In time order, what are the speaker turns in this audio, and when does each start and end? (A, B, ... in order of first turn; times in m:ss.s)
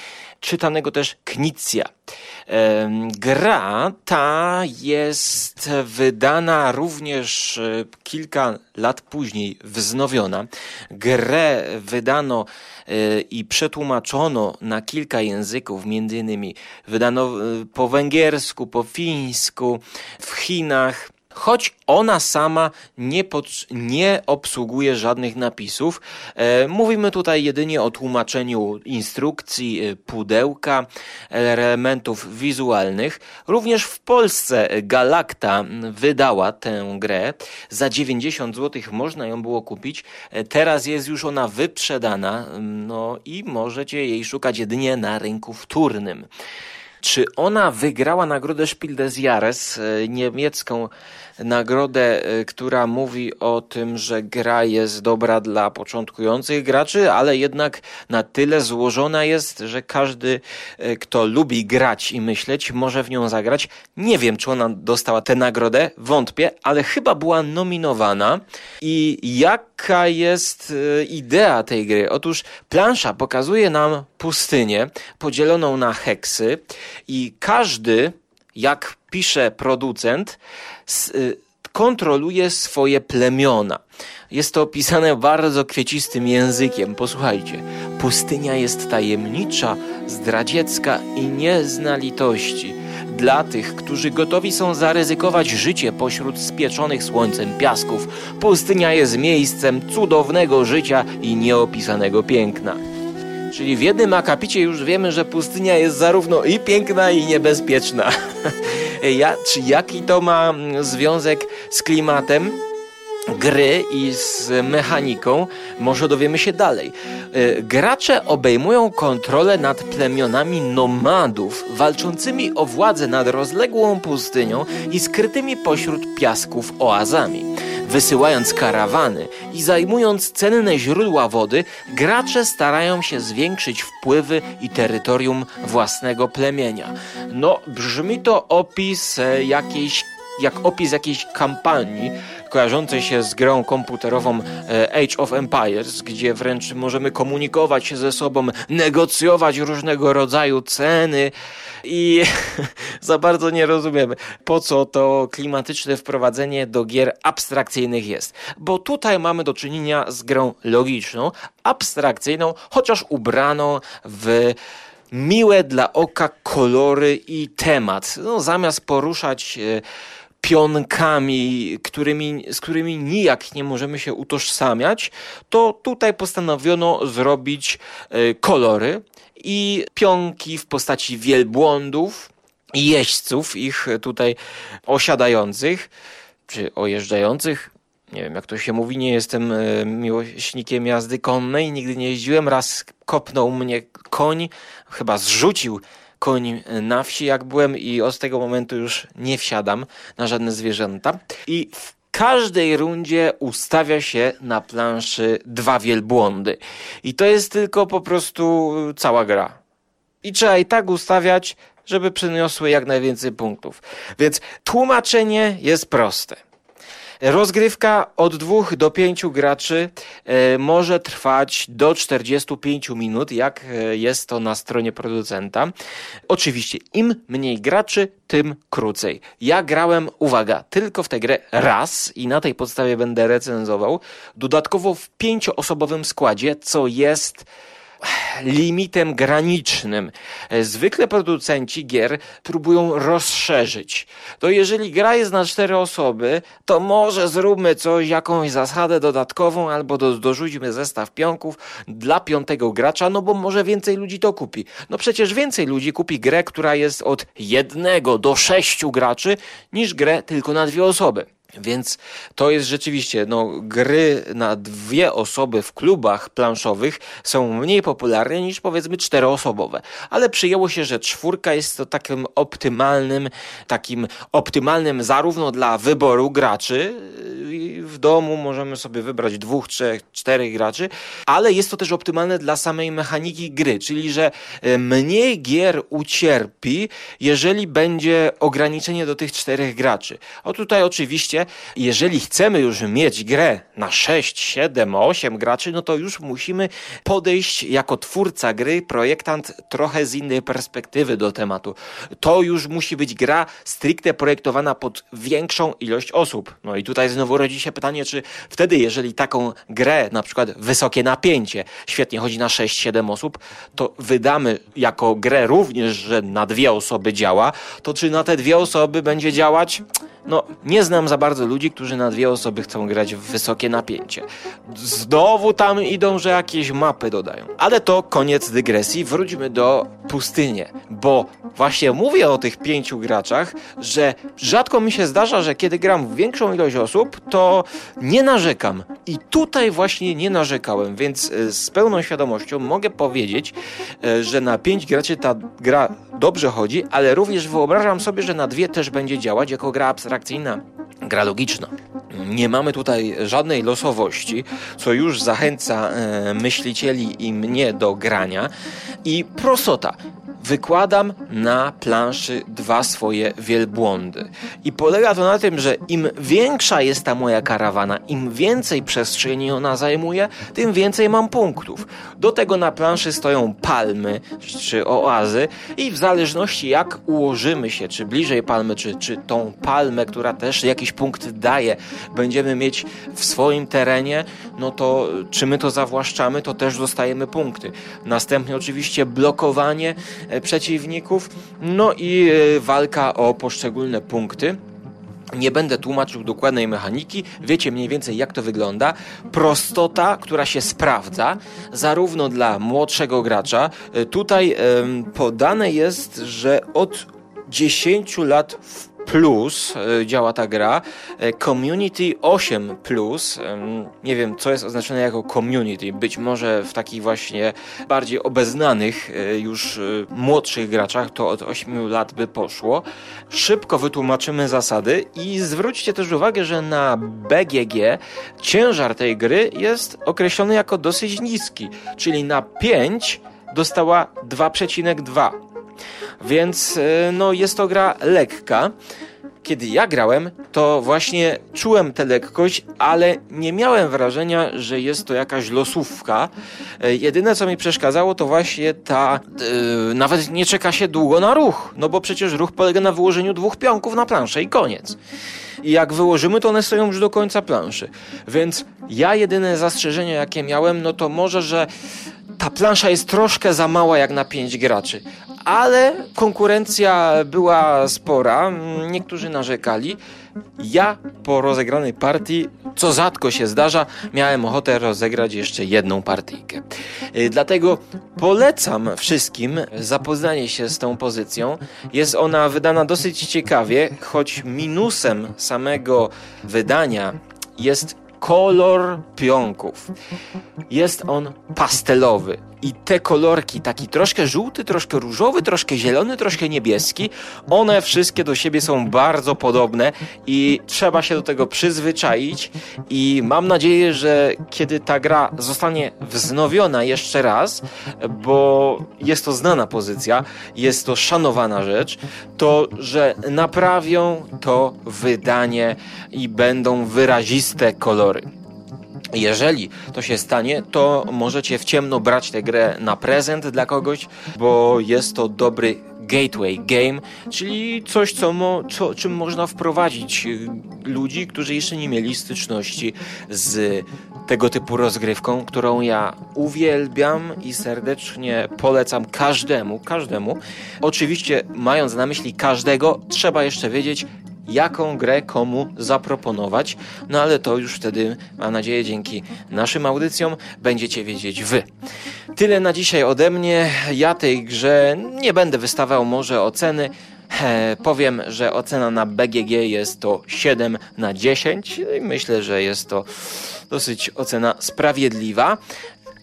0:00.4-0:01.9 A
0:02.5-0:46.3 A
0:47.0-1:42.8 A
1:43.5-1:52.6 A
1:53.3-2:31.3 A
2:31.8-2:44.6 A
2:45.1-2:49.8 A
2:50.4-3:05.9 A
3:06.5-3:29.6 A
3:30.2-3:36.4 A
3:37.2-3:45.7 A
3:46.3-3:57.5 A
3:58.0-5:58.5 A
5:59.0-6:34.6 A
6:35.3-7:15.3 A
7:16.2-7:18.7 A
7:19.4-7:35.0 A
7:35.6-7:41.7 A
7:42.4-7:50.0 A
7:50.6-8:09.9 A
8:10.7-8:38.2 A
8:39.1-9:11.7 A
9:12.3-9:25.6 A